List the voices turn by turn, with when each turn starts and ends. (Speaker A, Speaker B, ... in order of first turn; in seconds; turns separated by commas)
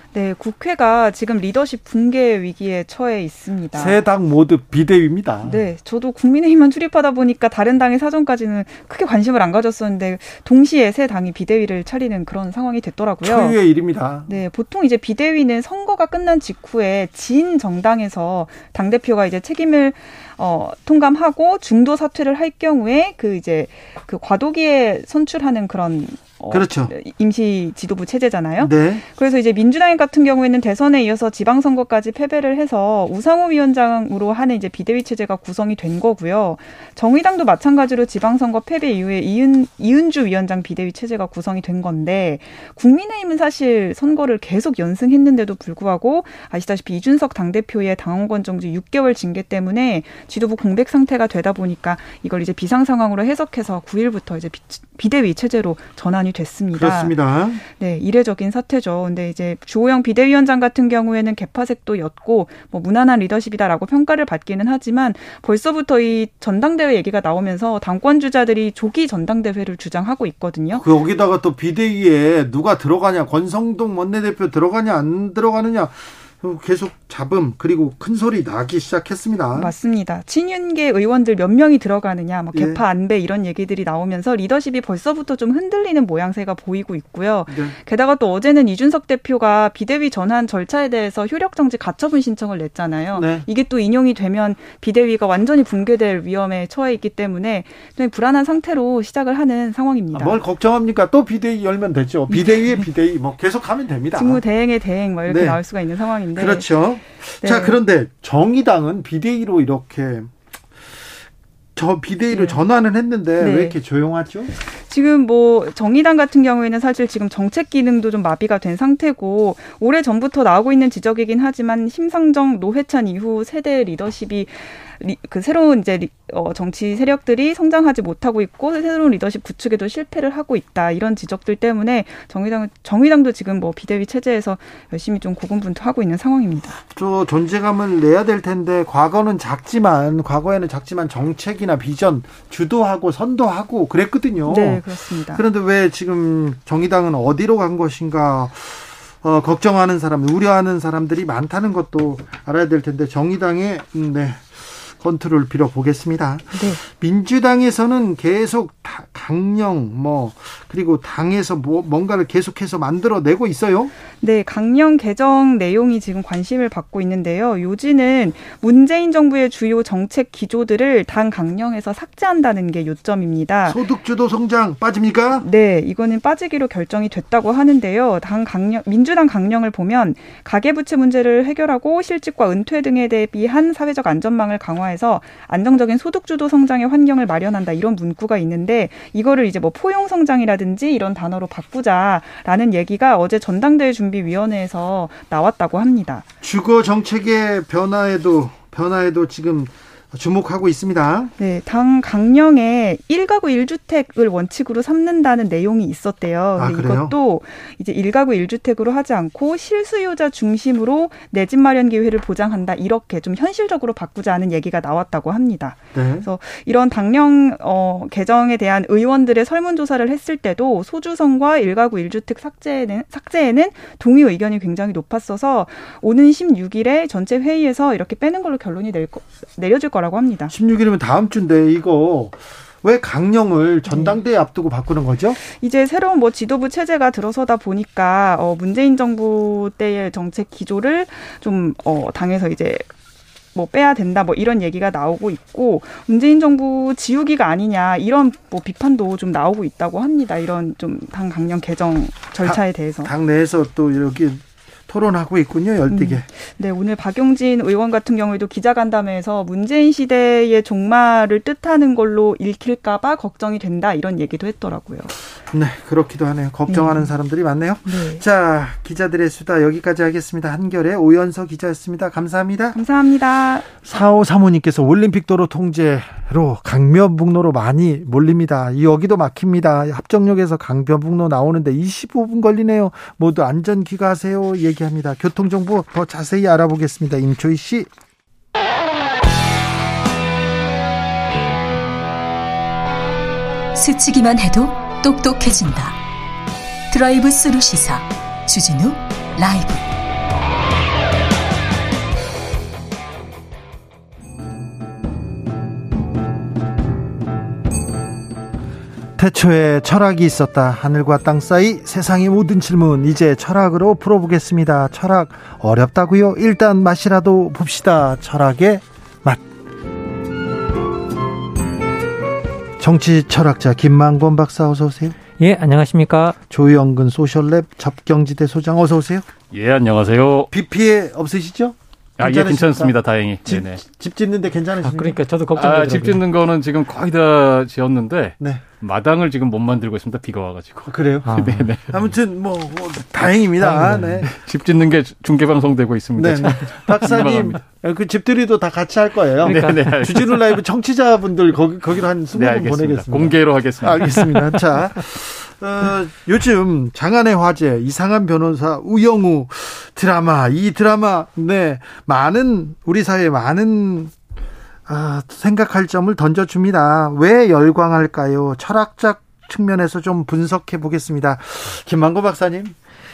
Speaker A: 0.1-4.0, Speaker B: 3.7-5.6, Speaker A: 5.4-13.6, Speaker B: 13.2-14.3, Speaker A: 14.3-57.1, Speaker B: 26.5-26.9, Speaker B: 28.6-29.0, Speaker B: 56.7-57.6, Speaker A: 57.7-70.8, Speaker B: 70.7-79.7, Speaker A: 79.5-100.4, Speaker B: 82.5-82.8, Speaker B: 87.5-87.8, Speaker B: 93.2-93.5, Speaker B: 100.1-104.4, Speaker A: 102.3-102.8, Speaker A: 104.1-106.7, Speaker B: 105.3-105.6, Speaker B: 106.3-110.3, Speaker A: 107.4-107.8, Speaker B: 111.8-114.5, Speaker A: 112.3-112.6, Speaker A: 113.4-113.8, Speaker A: 114.7-136.8, Speaker B: 136.9-163.9, Speaker A: 144.5-145.4, Speaker A: 156.6-156.8, Speaker A: 164.2-173.8, Speaker B: 173.7-175.5, Speaker A: 175.4-196.2, Speaker B: 196.4-201.3, Speaker A: 201.4-230.5, Speaker B: 206.6-207.2, Speaker B: 215.9-216.3, Speaker B: 230.5-235.4, Speaker A: 233.9-234.2, Speaker A: 235.4-242.9, Speaker A: 243.5-253.1, Speaker B: 252.4-256.3, Speaker A: 255.9-265.1, Speaker B: 265.5-272.8, Speaker A: 266.7-267.1, Speaker A: 267.9-268.2, Speaker A: 272.7-273.7, Speaker B: 273.8-287.9, Speaker C: 293.8-296.0, Speaker C: 296.9-299.9, Speaker B: 309.2-319.4, Speaker B: 322.8-325.2, Speaker D: 325.4-326.4, Speaker B: 326.5-329.3, Speaker E: 329.5-330.5, Speaker B: 330.5-332.9, Speaker E: 332.2-333.8, Speaker B: 333.4-335.2, Speaker D: 334.8-336.2, Speaker E: 335.6-342.0, Speaker B: 340.9-344.3, Speaker D: 341.2-341.7, Speaker D: 343.6-344.2, Speaker E: 343.8-347.6, Speaker B: 346.2-364.1, Speaker E: 349.4-350.4, Speaker D: 349.4-350.1, Speaker E: 352.3-354.8, Speaker B: 364.9-372.8